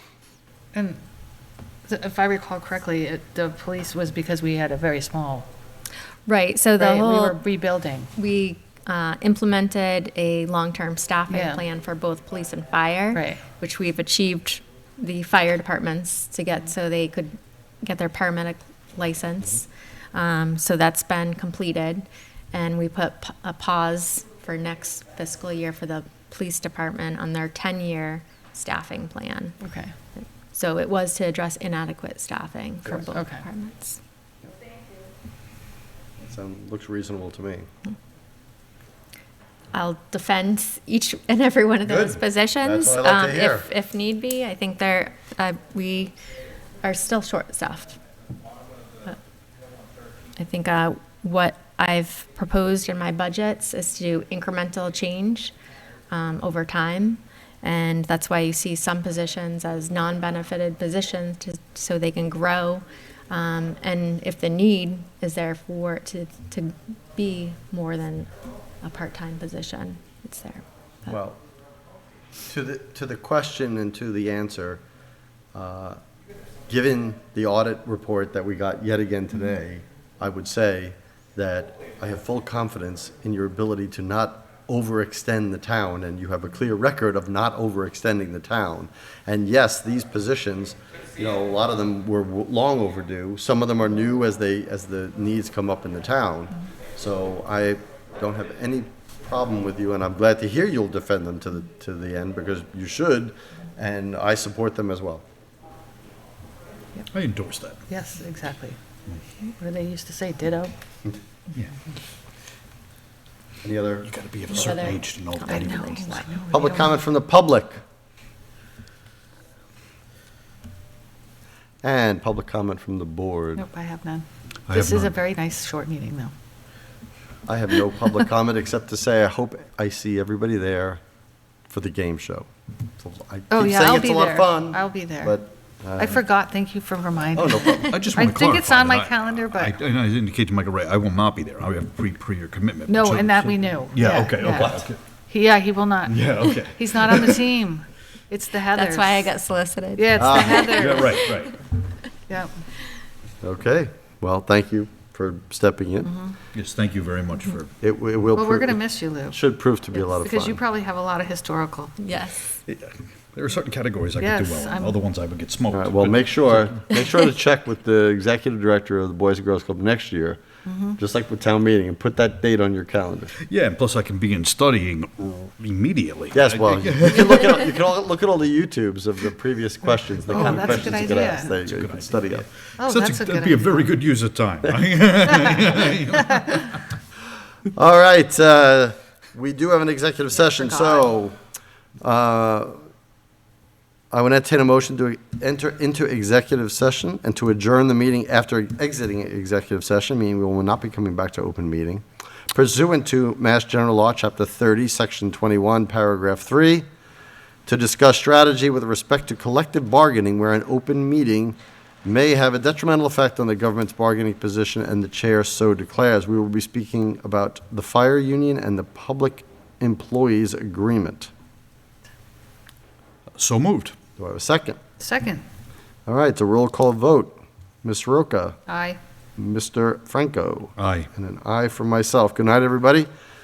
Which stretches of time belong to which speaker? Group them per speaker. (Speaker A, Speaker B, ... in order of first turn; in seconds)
Speaker A: 0.7-1.0, 1.9-5.5, 6.8-8.1, 11.3-11.6, 13.1-13.4, 29.6-29.9, 33.1-33.5, 107.9-108.8, 109.5-110.7, 115.5-117.0, 123.6-126.3, 133.5-135.4, 136.0-139.8, 142.9-149.3, 150.0-151.2, 152.3-152.5, 156.1-156.4, 158.3-159.4, 159.9-161.9, 164.2-165.0, 170.7-171.0, 180.3-181.6, 182.8-183.9, 190.4-191.1, 225.0-225.4, 228.7-229.0
Speaker B: 6.3-7.4, 8.2-29.6, 30.2-34.0, 39.7-46.1, 46.8-48.0, 50.4-55.5, 56.1-68.3, 68.8-71.1, 114.5-116.3, 148.7-151.5, 162.0-162.6
Speaker C: 36.2-37.7, 41.9-43.7, 71.0-71.4, 72.5-74.8, 75.5-76.0, 76.7-105.2, 113.6-114.1, 116.5-117.8, 121.8-123.7, 127.5-131.0, 131.7-132.5, 133.0-136.2, 137.3-138.0, 144.5-144.9, 150.2-150.8, 153.4-156.2, 157.8-158.8, 159.3-160.6, 165.7-170.4, 171.0-173.3, 176.3-182.4, 187.7-191.4, 192.0-192.8, 194.1-206.9, 207.7-221.3, 224.2-224.8, 226.1-228.6, 229.4-233.1
Speaker D: 107.1-107.8, 114.0-116.1, 124.7-125.1, 137.7-145.0, 146.1-147.3, 150.7-151.6, 156.5-157.8, 162.7-167.0, 173.4-177.6, 180.3-186.8, 223.4-223.9, 230.8-231.1